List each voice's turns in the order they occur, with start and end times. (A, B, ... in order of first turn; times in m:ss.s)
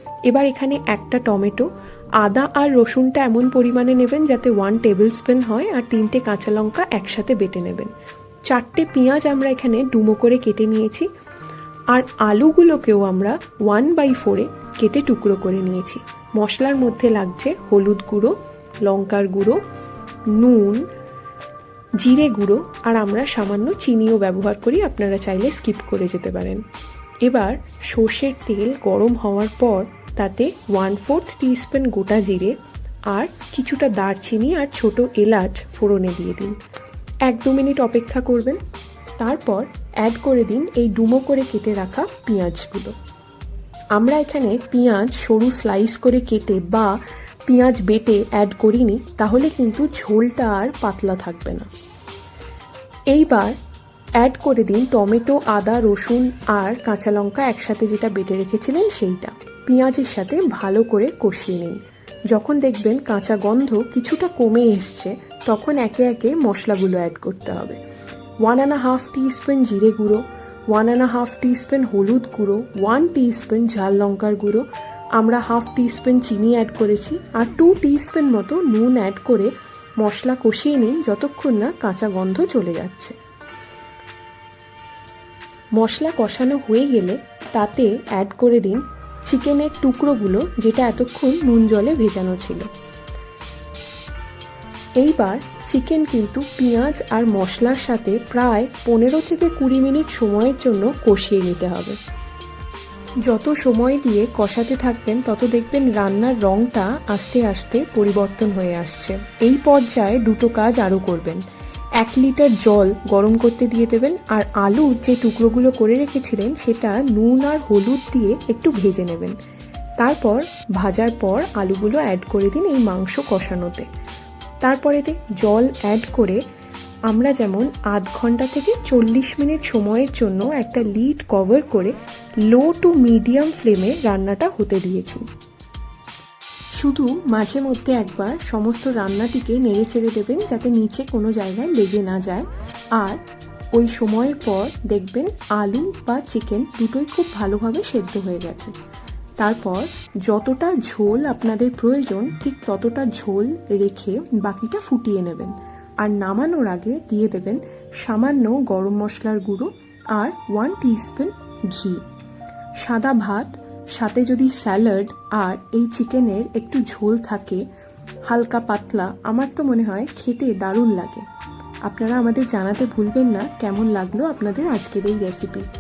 0:00.3-0:01.7 A
0:02.2-0:07.9 A
0:08.5-0:11.1 A
0:11.9-0:19.6 A
0:20.3-0:20.8 A
0:22.0-0:26.6 A
0:27.2-0:32.6 A
0:33.1-0:36.6 A
0:37.2-0:38.6 A
0:39.2-0:42.9 A
0:43.9-0:47.0 A
0:47.5-0:51.7 A
0:53.1-0:53.6 A
0:54.2-1:01.8 A
1:02.3-1:07.8 A
1:08.4-1:14.7 A
1:15.2-1:23.2 A
1:25.8-1:32.7 A
1:35.0-1:42.0 A
1:43.2-1:51.4 A
1:52.0-1:59.4 A
2:00.0-2:03.9 A
2:04.6-2:06.4 A
2:07.1-2:15.2 A
2:16.8-2:23.2 A
2:23.7-2:28.7 A
2:29.4-2:42.0 A
2:42.8-2:47.6 A
2:48.3-2:51.2 A
2:51.8-2:55.7 A